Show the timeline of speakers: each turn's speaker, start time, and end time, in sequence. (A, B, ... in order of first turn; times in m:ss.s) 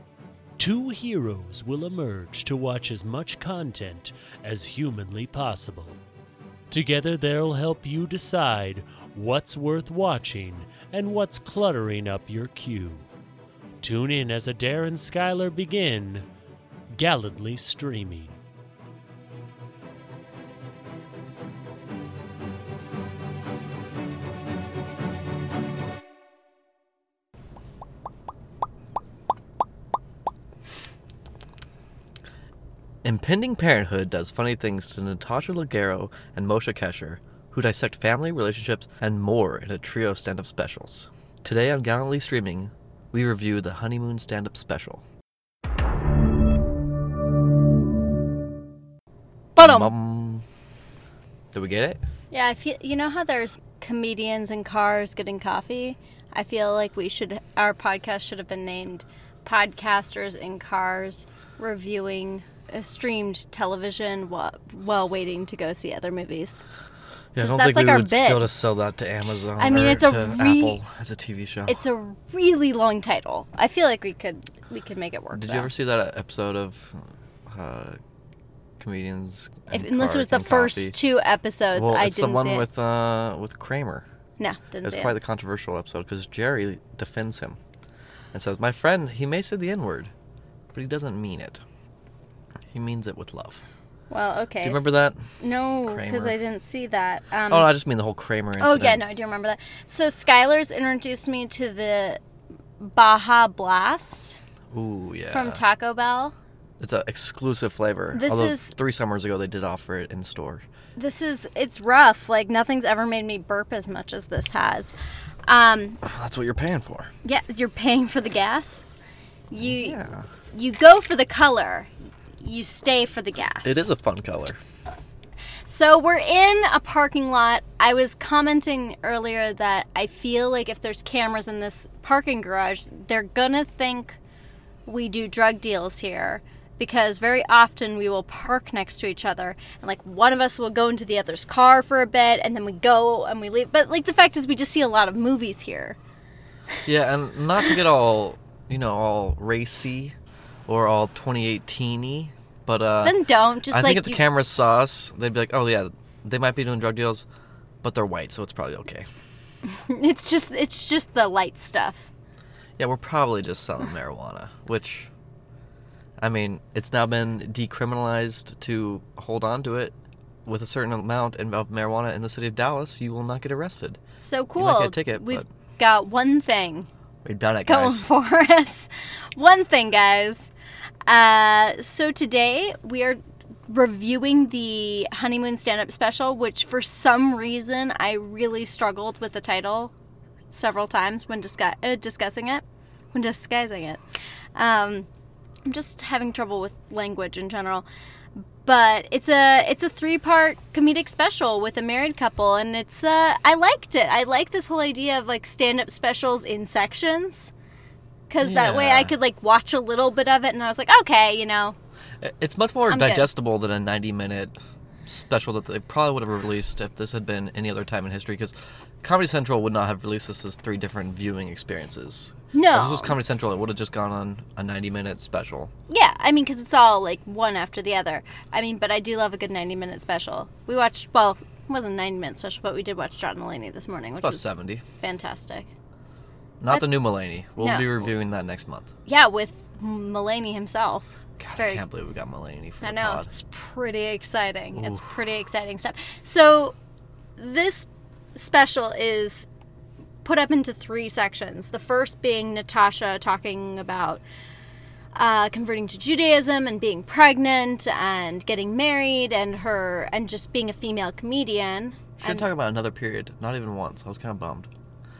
0:00.6-0:06.0 A
0:06.7-0:13.1 A
0:13.8-0:16.2 A
0:16.9-0:18.4 A
0:33.0-0:45.0 B
0:49.6-0:49.9 C
0:49.6-0:50.4 B
0:51.5-0:52.0 B
0:52.3-1:06.6 C
1:07.3-1:11.8 B
1:07.4-1:08.5 C
1:09.6-1:10.8 C
1:11.7-1:15.7 C
1:15.3-1:18.0 B
1:18.8-1:21.0 B
1:19.7-1:22.6 C
1:21.7-1:24.0 B
1:24.4-1:25.1 C
1:24.8-1:27.6 B
1:28.3-1:30.1 B
1:30.7-1:31.6 B
1:32.7-1:33.6 B
1:34.1-1:34.9 C
1:34.6-1:35.2 B
1:35.4-1:37.7 C
1:35.9-1:36.3 B
1:37.5-1:39.0 B
1:38.6-1:42.2 C
1:42.8-1:44.4 C
1:44.7-1:45.6 B
1:45.3-1:46.3 C
1:46.8-1:50.6 B
1:48.1-1:48.7 C
1:51.0-1:54.9 C
1:55.4-1:56.0 C
1:56.0-1:57.1 B
1:57.2-1:58.8 C
1:59.5-2:00.0 C
1:59.6-2:00.3 B
2:00.5-2:01.9 C
2:02.4-2:03.9 C
2:03.6-2:04.6 B
2:05.7-2:14.2 C
2:14.8-2:26.0 C
2:26.8-2:30.2 B
2:30.7-2:37.2 B
2:33.0-2:34.2 C
2:37.8-2:39.1 B
2:39.7-2:42.1 C
2:42.8-2:45.1 B
2:46.2-2:54.0 B
2:54.2-2:56.9 C
2:54.6-2:55.4 B
2:57.2-2:58.0 B
2:57.7-3:00.5 C
3:01.0-3:09.9 C
3:10.5-3:14.0 C
3:14.6-3:15.1 C
3:15.6-3:17.8 C
3:18.4-3:27.5 C
3:28.3-3:31.8 C
3:28.4-3:29.1 B
3:32.2-3:34.5 B
3:32.9-3:33.3 C
3:35.0-3:45.7 B
3:42.5-3:43.2 C
3:45.9-3:55.7 C
3:54.2-3:54.8 B
3:56.6-3:58.9 B
3:57.6-3:57.9 C
3:59.1-4:01.8 C
4:01.4-4:03.3 B
4:02.8-4:06.7 C
4:04.8-4:05.0 B
4:07.4-4:09.5 C
4:10.2-4:14.2 C
4:15.1-4:22.5 C
4:22.2-4:24.7 B